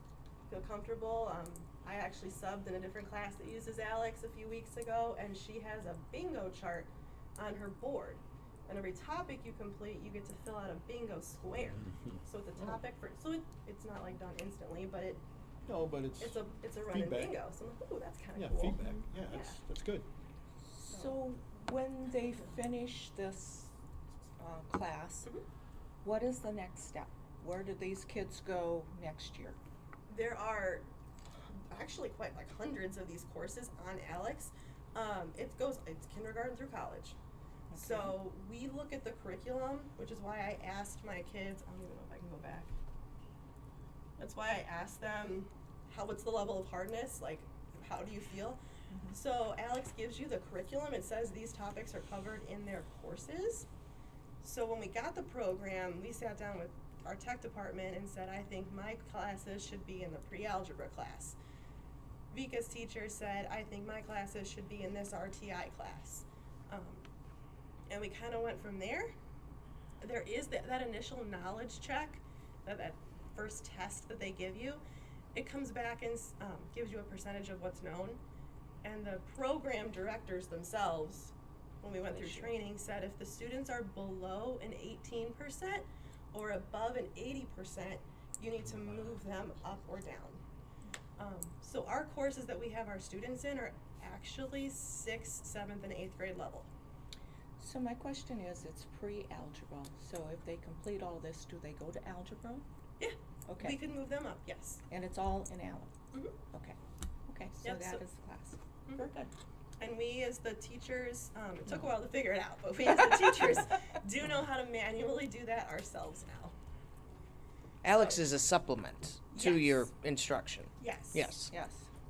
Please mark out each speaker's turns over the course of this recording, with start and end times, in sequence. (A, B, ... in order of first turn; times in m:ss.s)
0:00.5-0:15.2 A
0:15.6-0:16.4 B
0:16.2-0:19.6 A
0:16.9-0:17.4 B
0:18.4-0:20.0 B
0:20.6-0:23.7 C
0:24.4-0:25.3 C
0:26.0-0:29.6 C
0:30.1-0:30.9 A
0:31.7-0:37.2 A
0:37.7-0:38.2 C
0:37.7-0:42.7 A
0:44.2-0:53.7 A
0:54.4-1:01.4 A
1:02.3-1:07.0 A
1:07.9-1:09.1 A
1:10.0-1:14.8 A
1:15.3-1:18.2 A
1:18.8-1:30.4 A
1:31.2-1:36.7 A
1:37.6-1:42.6 C
1:43.0-1:44.8 A
1:43.5-1:43.8 C
1:44.9-1:45.9 C
1:46.5-1:49.3 C
1:47.6-1:48.0 A
1:49.8-1:56.5 A
1:57.8-2:01.5 D
1:57.9-1:58.2 A
1:59.3-1:59.9 A
2:00.8-2:01.4 A
2:01.5-2:01.9 C